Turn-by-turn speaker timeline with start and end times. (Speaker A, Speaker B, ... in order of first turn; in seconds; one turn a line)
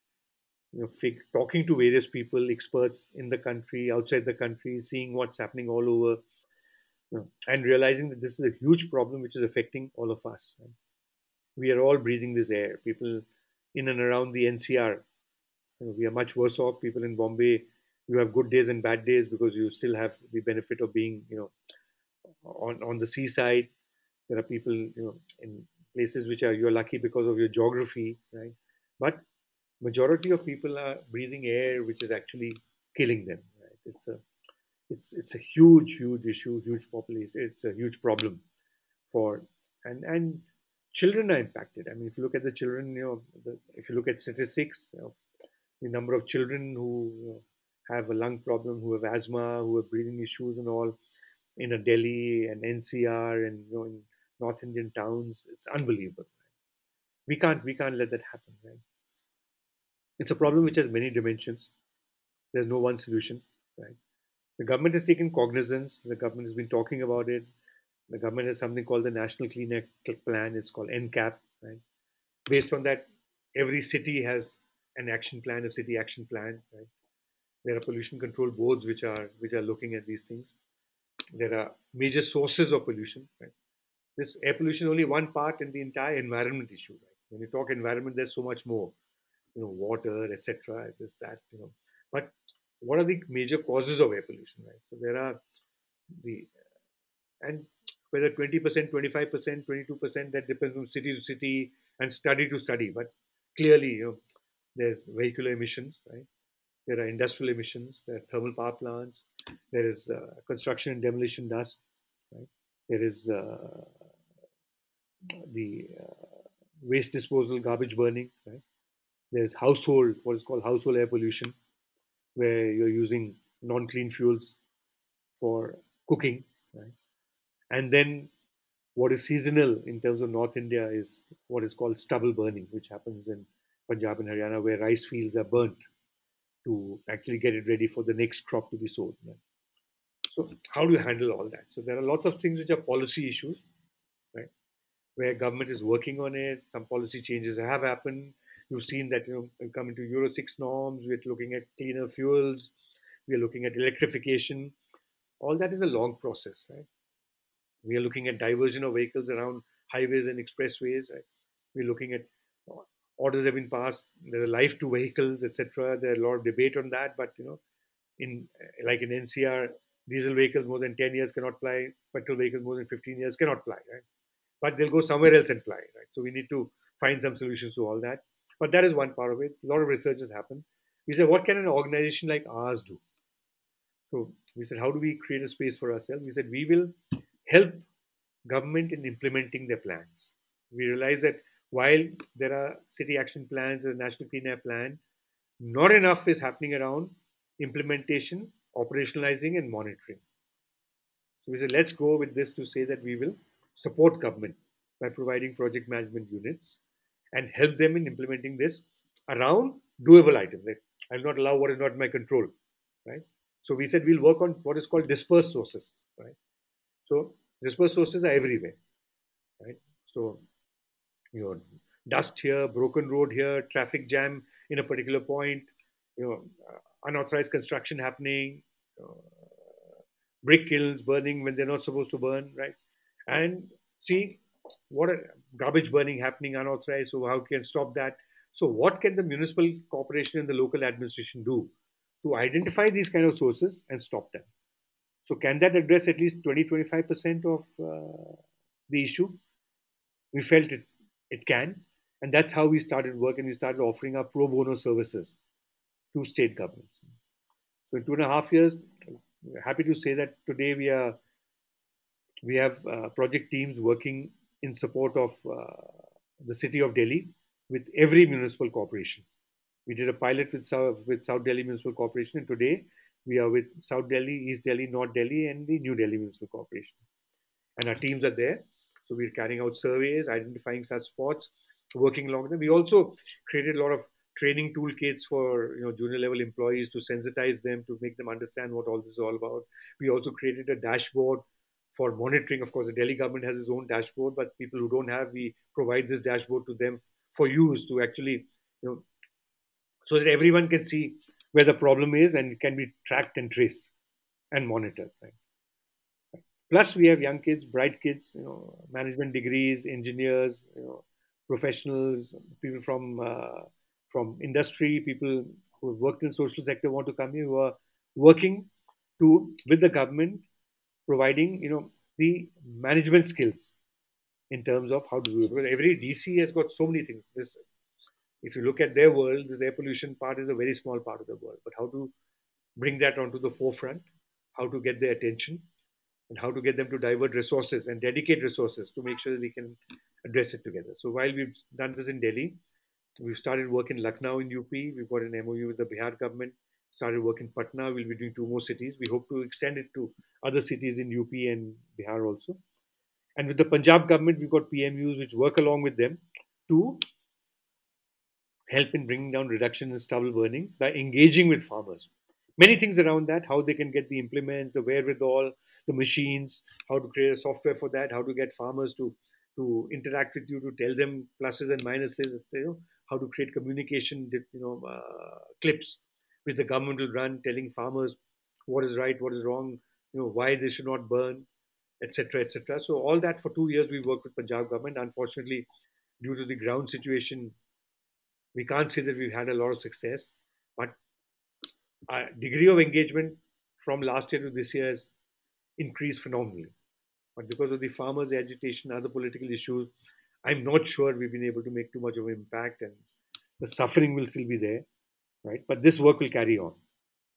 Speaker A: 0.7-6.2
Speaker A: 7.1-10.7
Speaker A: 11.6-15.0
Speaker A: 15.8-21.5
Speaker A: 22.4-23.7
Speaker A: 24.3-29.2
Speaker A: 29.8-34.2
Speaker A: 34.9-38.4
Speaker A: 39.1-45.1
Speaker A: 45.8-51.0
Speaker A: 51.6-56.3
Speaker A: 57.3-58.8
Speaker A: 60.2-61.7
Speaker A: 62.5-64.0
Speaker A: 64.6-67.5
Speaker A: 68.1-71.8
Speaker A: 72.5-76.9
Speaker A: 77.6-80.5
Speaker A: 81.3-83.5
Speaker A: 84.2-88.9
Speaker A: 89.5-95.4
Speaker A: 96.2-96.5
Speaker A: 97.4-104.2
Speaker A: 104.8-106.3
Speaker A: 106.9-111.8
Speaker A: 112.3-113.9
Speaker A: 115.3-116.3
Speaker A: 116.8-118.6
Speaker A: 119.3-121.5
Speaker A: 122.3-124.6
Speaker A: 125.4-126.9
Speaker A: 127.7-128.3
Speaker A: 129.0-135.8
Speaker A: 136.7-139.4
Speaker A: 140.3-143.6
Speaker A: 145.2-152.7
Speaker A: 153.3-154.7
Speaker A: 155.4-156.9
Speaker A: 157.8-167.6
Speaker A: 168.2-174.0
Speaker A: 174.6-183.0
Speaker A: 184.1-186.9
Speaker A: 187.4-187.8
Speaker A: 188.5-195.0
Speaker A: 195.6-200.2
Speaker A: 201.4-206.8
Speaker A: 207.3-212.5
Speaker A: 213.1-216.4
Speaker A: 217.1-218.8
Speaker A: 219.6-220.4
Speaker A: 221.3-229.3
Speaker A: 230.4-232.8
Speaker A: 233.3-241.7
Speaker A: 242.2-244.5
Speaker A: 245.2-249.4
Speaker A: 250.3-255.4
Speaker A: 256.1-257.1
Speaker A: 257.9-258.8
Speaker A: 259.4-261.2
Speaker A: 262.4-269.2
Speaker A: 269.9-277.0
Speaker A: 277.8-299.0
Speaker A: 300.1-303.9
Speaker A: 304.5-305.4
Speaker A: 306.7-320.4
Speaker A: 321.1-323.7
Speaker A: 324.5-327.6
Speaker A: 328.4-332.1
Speaker A: 332.8-335.6
Speaker A: 336.3-342.6
Speaker A: 343.2-352.6
Speaker A: 353.4-357.0
Speaker A: 358.7-381.5
Speaker A: 382.0-385.7
Speaker A: 386.2-387.6
Speaker A: 388.6-390.9
Speaker A: 392.1-395.1
Speaker A: 395.8-396.7
Speaker A: 397.4-399.9
Speaker A: 400.4-403.0
Speaker A: 403.6-404.9
Speaker A: 405.4-406.8